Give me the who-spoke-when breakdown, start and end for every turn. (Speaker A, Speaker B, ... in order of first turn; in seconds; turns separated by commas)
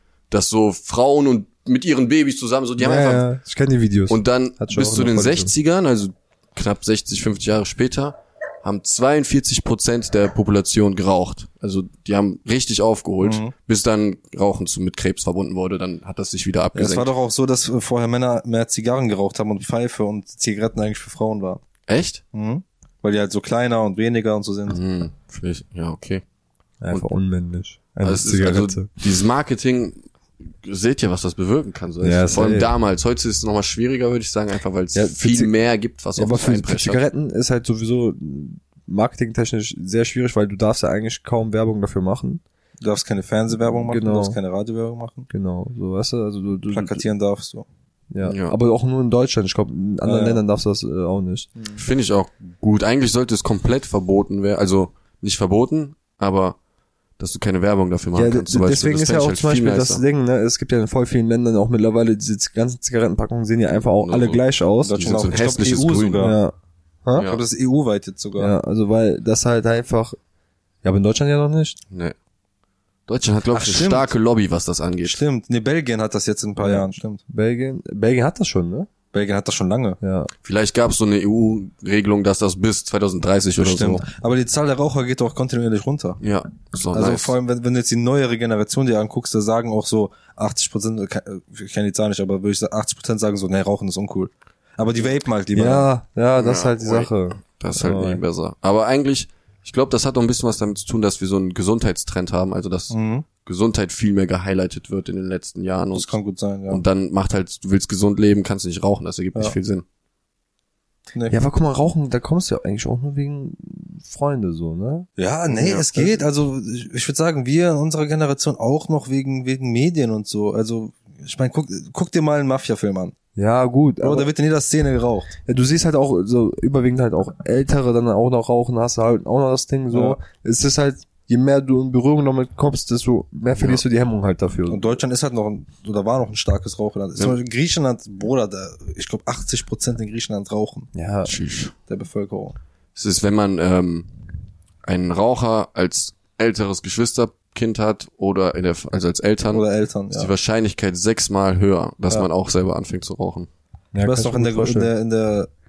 Speaker A: 0.3-3.3, Speaker B: 2.8-5.5, Speaker A: 4.1-17.1, Speaker C: 13.2-13.5, Speaker C: 16.8-21.6, Speaker A: 21.9-22.2, Speaker C: 22.3-24.8, Speaker A: 24.7-26.2, Speaker B: 26.8-28.9, Speaker A: 28.0-37.0, Speaker B: 32.0-32.7, Speaker B: 34.9-35.5, Speaker B: 36.2-42.4, Speaker C: 42.8-45.3, Speaker B: 43.9-44.4, Speaker B: 45.3-47.0, Speaker C: 46.7-47.7, Speaker B: 48.1-51.5, Speaker A: 48.2-48.6, Speaker C: 50.0-50.4, Speaker A: 51.8-56.6, Speaker A: 57.2-60.0, Speaker B: 58.1-65.2, Speaker A: 64.0-64.4, Speaker C: 64.8-66.4, Speaker A: 64.9-66.3, Speaker B: 66.2-67.3, Speaker A: 67.2-67.4, Speaker C: 67.2-68.5, Speaker B: 68.4-70.2, Speaker B: 70.8-71.8, Speaker A: 71.9-72.2, Speaker A: 73.1-75.2, Speaker C: 73.5-74.1, Speaker C: 75.0-77.2, Speaker B: 76.6-78.9, Speaker C: 79.1-80.0, Speaker B: 80.0-80.3, Speaker A: 80.4-84.0, Speaker C: 83.6-86.2, Speaker A: 86.2-87.3, Speaker C: 86.9-95.9, Speaker B: 95.5-98.2, Speaker A: 96.4-106.2, Speaker C: 102.9-103.3, Speaker C: 105.9-106.8, Speaker A: 106.7-109.8, Speaker B: 111.3-115.1, Speaker C: 115.2-123.2, Speaker A: 115.6-115.9, Speaker B: 123.4-124.3, Speaker C: 124.0-125.3, Speaker B: 125.5-135.0, Speaker C: 129.9-130.2, Speaker A: 133.6-133.8, Speaker C: 134.7-140.9, Speaker B: 140.9-141.3, Speaker A: 141.2-141.7, Speaker C: 141.9-142.6, Speaker A: 142.9-144.1, Speaker A: 144.8-153.5, Speaker C: 149.5-150.3, Speaker B: 153.9-154.9, Speaker C: 154.0-155.5